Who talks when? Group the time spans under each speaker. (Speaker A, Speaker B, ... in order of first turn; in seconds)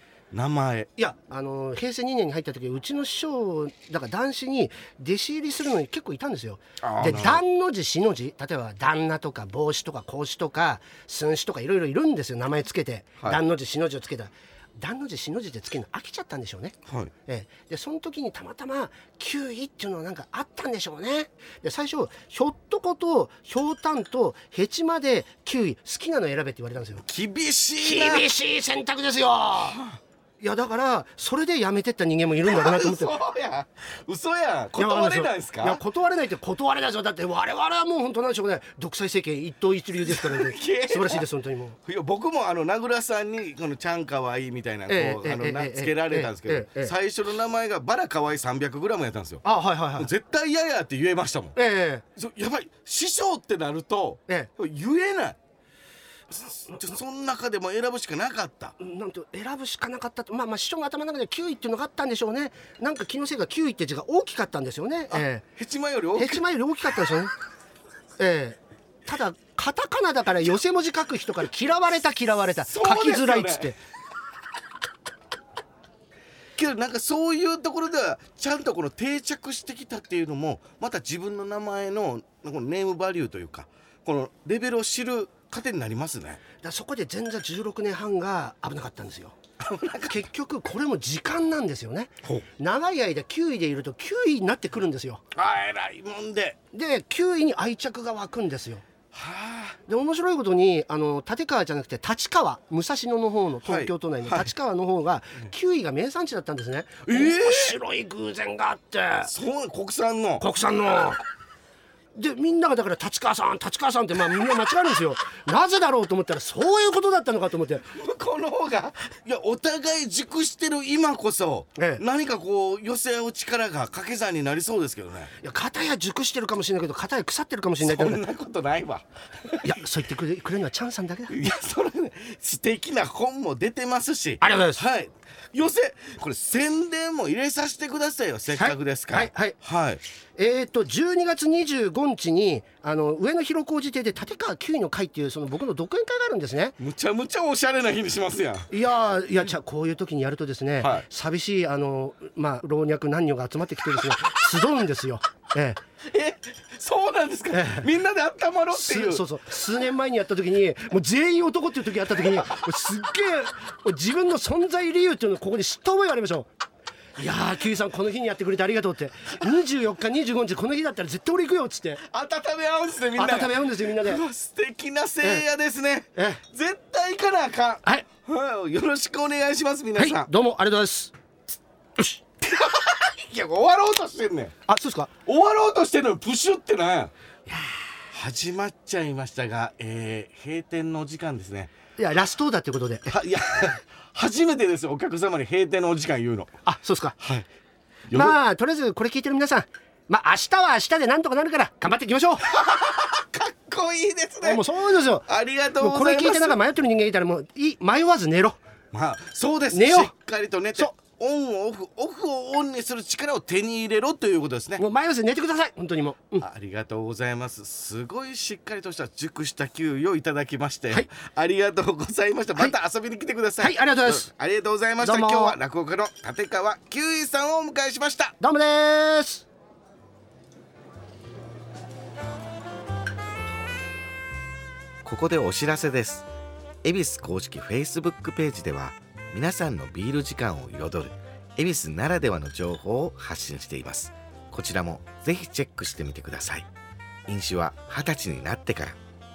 Speaker A: 0.3-0.9, 6.8-7.4, 16.9-17.1, 27.0-28.3, 29.7-30.0, 32.4-35.8, 40.0-41.3, 41.9-51.5, 52.1-55.4, 56.3-58.8, 65.1-66.4, 72.6-73.7, 76.5-86.4, 89.6-90.2, 95.3-96.6, 99.1-99.8, 103.6-104.5, 107.0-107.8, 109.2-110.5, 117.9-125.3, 127.8-129.8, 131.3-140.0, 146.8-148.7, 150.8-151.1, 156.0-159.2, 172.0-180.3, 182.4-184.5, 185.2-187.1, 188.1-191.7, 193.1-196.5, 197.2-197.4, 198.1-198.4, 202.4-206.6, 208.9-214.8, 216.4-228.3, 235.0-236.3, 236.8-246.7, 247.3-249.0
Speaker B: 1.0-27.0, 27.8-29.8, 30.4-33.2, 34.8-41.8, 44.9-46.9, 49.4-50.1, 51.5-52.0, 58.8-65.5, 66.2-67.3, 68.2-73.8, 86.6-89.3, 90.1-95.2, 96.7-98.8, 99.9-109.3, 110.4-111.2, 112.1-117.8, 121.8-122.0, 125.4-128.2, 129.6-131.3, 134.4-134.8, 138.6-139.6, 140.3-146.8, 148.7-155.8, 157.5-157.9, 158.7-166.5, 167.2-172.0, 173.2-174.2, 176.1-176.4, 179.9-181.1, 184.7-185.1, 187.5-187.8, 192.0-193.1, 196.6-197.2, 198.1-202.5, 204.4-208.6, 209.7-210.1, 214.8-216.4, 223.6-224.3, 225.0-225.6, 228.4-229.4